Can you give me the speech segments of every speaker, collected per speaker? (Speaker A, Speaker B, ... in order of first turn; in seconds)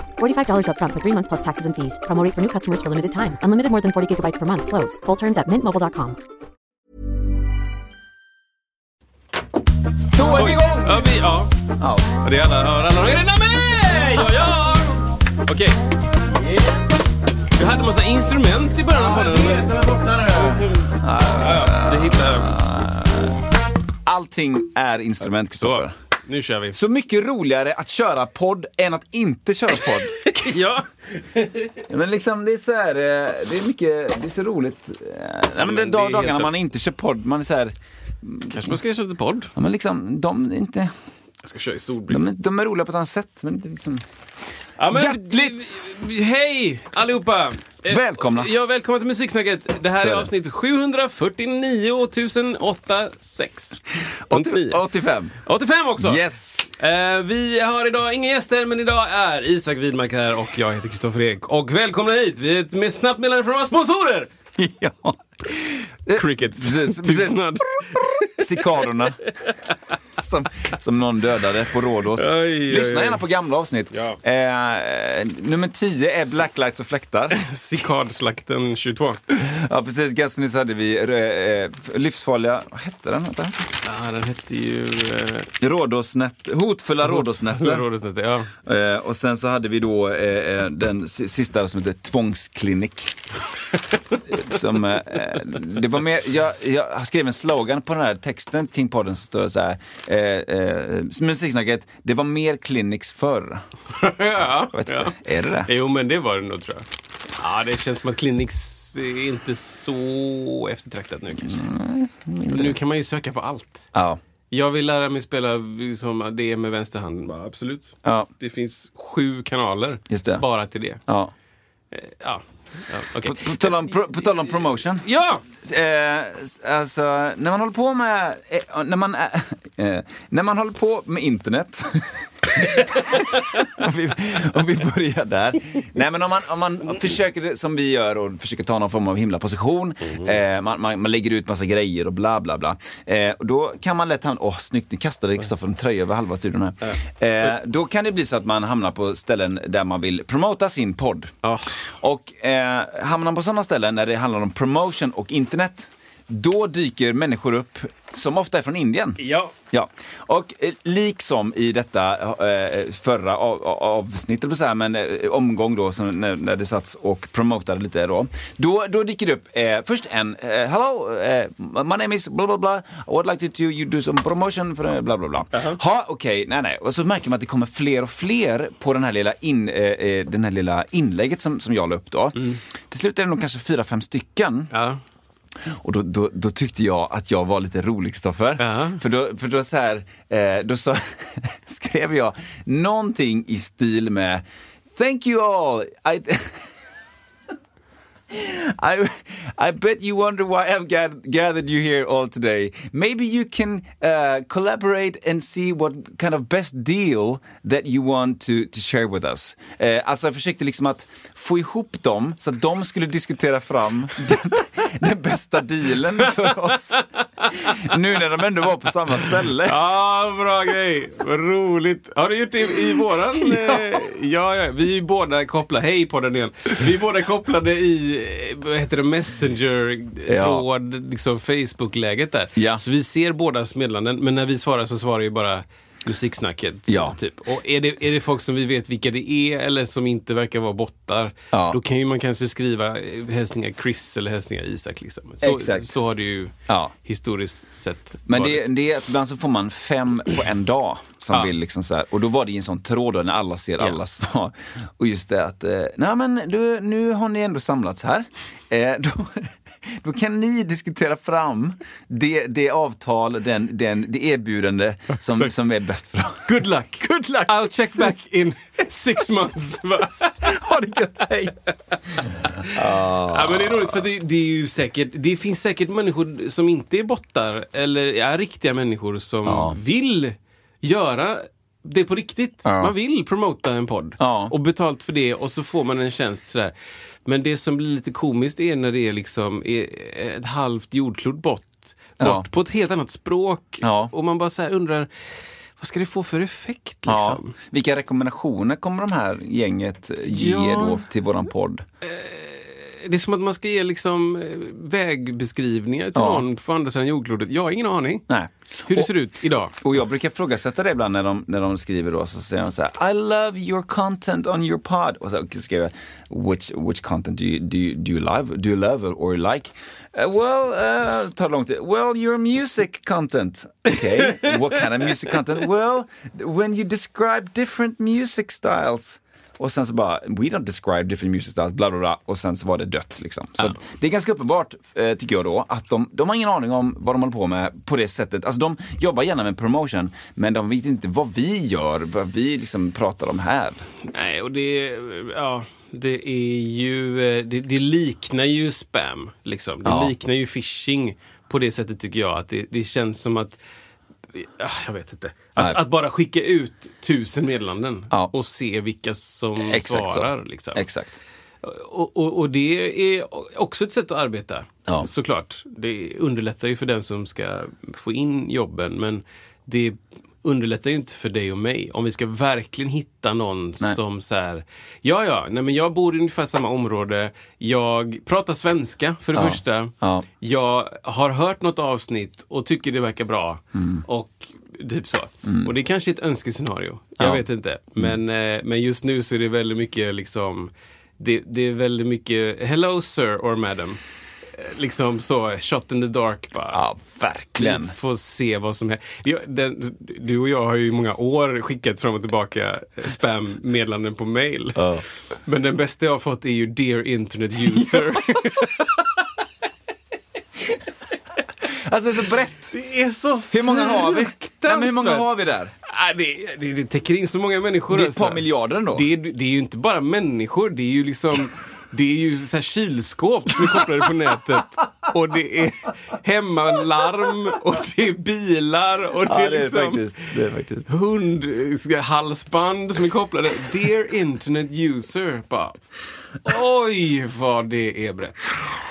Speaker A: 0.2-6.2
Speaker B: 10.1-11.1, 11.8-12.1, 18.9-23.3, 24.0-25.9, 26.7-30.5, 31.9-38.8, 39.5-40.9, 42.1-44.0, 44.9-45.8, 47.9-48.5, 50.0-50.3, 54.3-55.3, 56.0-56.7, 64.6-69.2, 70.2-77.4, 79.3-83.7, 85.6-87.9, 88.6-93.2, 94.3-103.6, 104.7-105.7, 111.4-112.8, 113.9-114.2, 118.0-118.3, 120.1-120.4, 121.1-121.3, 123.2-184.7, 185.7-196.7, 198.3-217.0, 217.5-219.8, 223.4-223.8, 230.3-230.6, 232.6-232.8, 236.9-237.2, 241.5-241.8, 245.4-245.9, 246.7-246.9, 248.3-268.2, 270.2-271.5, 272.7-274.0, 279.4-279.8, 282.6-282.9, 284.2-284.5, 292.2-292.5, 293.8-294.1, 297.1-301.8, 306.1-306.4, 308.3-309.1, 309.8-343.9, 349.8-350.1, 355.6-355.8, 359.6-361.2, 379.3-380.3, 383.8-384.0, 385.4-385.7, 387.2-387.4, 396.7-397.9, 404.8-405.0, 407.7-408.2, 411.6-412.7, 413.5-415.7, 417.9-419.1, 429.2-430.9
Speaker C: 10.2-11.5, 12.2-15.8, 17.5-19.8, 20.5-22.6, 25.6-26.8, 29.7-31.8, 35.6-36.5, 38.5-39.5, 41.4-42.2, 44.8-53.8, 54.3-54.8, 55.4-64.3, 66.1-68.9, 72.1-73.2, 73.9-74.2, 77.3-79.2, 83.8-85.5, 87.0-88.5, 103.9-111.7, 112.5-113.9, 114.5-121.0, 121.9-125.4, 132.9-133.6, 140.1-140.3, 151.4-151.8, 159.2-159.5, 175.5-175.8, 184.7-185.0, 188.6-189.0, 216.2-217.9, 219.2-248.7, 266.4-270.5, 272.6-286.7, 287.2-295.1, 295.8-297.6, 300.3-301.0, 302.0-308.2, 308.9-309.8, 344.1-353.6, 354.3-360.8, 361.6-394.0, 394.5-396.8, 397.6-404.9, 405.4-409.1, 412.7-415.3, 415.8-430.1, 430.9-435.8, 436.4-438.5